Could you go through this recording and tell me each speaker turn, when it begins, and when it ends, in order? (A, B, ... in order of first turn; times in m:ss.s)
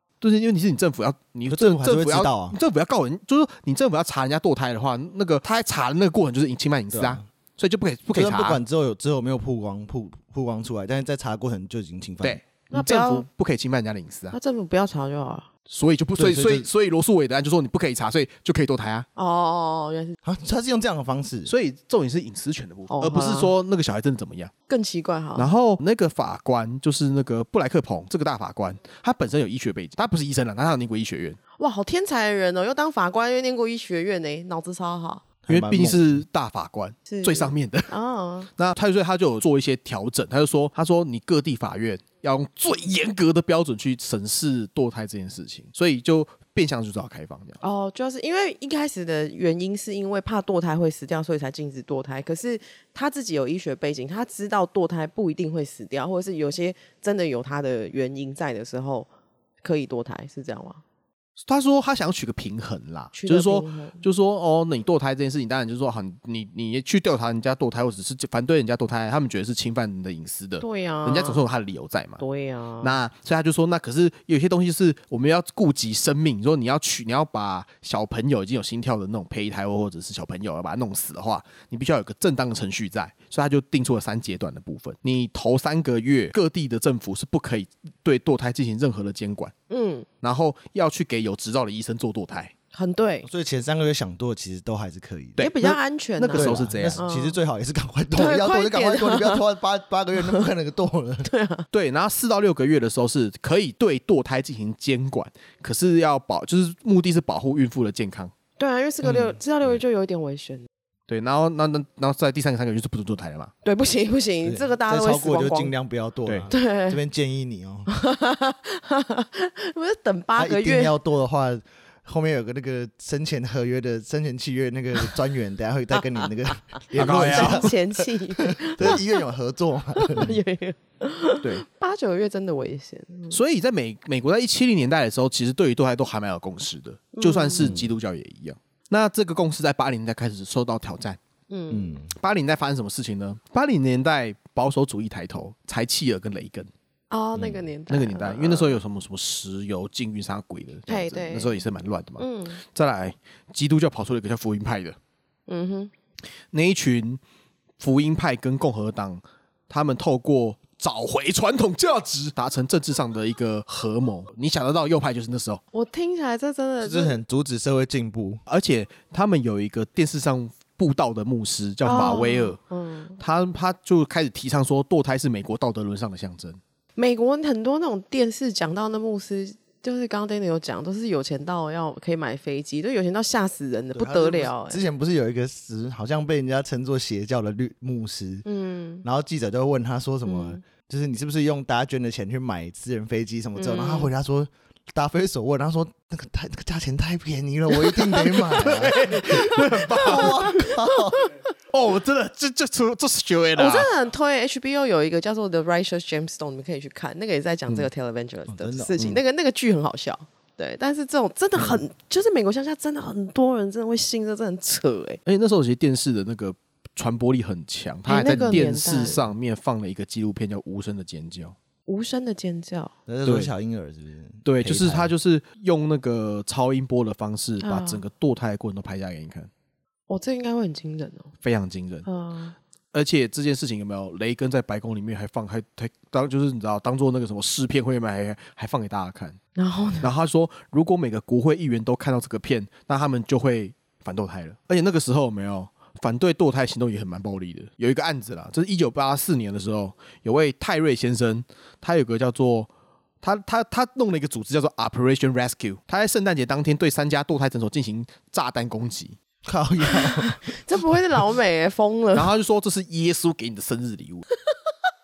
0:00.2-0:08.6 A
0:01.5-0:02.6 B
0:06.9-0:07.2 B
0:08.1-0:12.4 B
0:12.2-0:14.4 A
0:12.7-0:13.2 C
0:14.3-0:15.5 C
0:15.7-0:19.1 A
0:16.2-0:16.7 B
0:19.2-0:20.2 C
0:20.2-0:21.5 B
0:21.4-0:24.5 A
0:22.9-0:23.5 C
0:24.7-0:25.5 C
0:25.4-0:31.4 A
0:31.6-0:35.2 C
0:35.4-0:36.2 B
0:35.5-0:37.9 A
0:37.1-0:38.5 C
0:38.6-0:47.6 A
0:47.6-0:59.1 C
0:59.6-1:00.8 C
1:01.4-1:12.2 A
1:03.1-1:04.0 C
1:10.6-1:11.4 C
1:12.2-1:13.0 C
1:12.8-1:29.5 A
1:29.7-1:30.1 C
1:30.2-1:32.5 A
1:32.7-1:33.3 C
1:33.2-1:35.4 B
1:35.4-1:37.0 A
1:35.4-1:37.4 C
1:36.3-1:41.3 B
1:38.1-1:39.4 C
1:41.2-1:41.7 C
1:41.7-1:48.3 A
1:48.6-1:50.7 C
1:51.1-1:53.5 A
1:53.6-1:55.7 C
1:54.4-1:57.9 B
1:56.5-1:57.0 C
1:57.9-2:00.9 C
2:00.4-2:07.8 B
2:06.9-2:07.7 A
2:07.0-2:09.2 C
2:08.4-2:10.4 B
2:10.0-2:13.4 C
2:13.3-2:21.2 A
2:17.2-2:17.8 C
2:17.6-2:17.9 B
2:21.5-2:22.0 C
2:21.7-2:22.1 B
2:22.1-2:26.7 A
2:27.1-2:28.8 C
2:27.9-2:35.0 A
2:30.9-2:31.6 C
2:32.2-2:32.6 C
2:35.5-2:35.9 C
2:36.5-2:37.2 A
2:37.8-2:45.6 A
2:45.7-2:47.2 C
2:46.8-2:48.4 B
2:48.5-2:52.6 A
2:51.8-2:53.2 C
2:53.2-2:56.6 A
2:57.0-3:04.8 C
3:03.9-3:08.4 B
3:08.4-3:09.0 C
3:09.0-3:21.2 B
3:10.2-3:10.6 C
3:13.6-3:14.1 C
3:17.8-3:21.4 C
3:18.5-3:20.7 A
3:21.7-3:23.9 A
3:23.6-3:35.2 C
3:28.5-3:29.0 B
3:31.6-3:31.8 B
3:35.2-3:41.5 A
3:38.1-3:39.2 C
3:41.9-3:42.9 C
3:43.1-3:45.1 B
3:43.2-3:43.5 A
3:44.4-3:49.5 A
3:47.6-3:48.0 C
3:50.1-3:51.3 C
3:51.4-3:52.0 A
3:52.0-3:52.5 C
3:52.9-3:59.4 A
3:59.6-4:00.1 C
4:00.0-4:12.7 A
4:13.2-4:19.2 A
4:19.4-4:20.4 B
4:19.9-4:22.3 C
4:22.1-4:24.2 A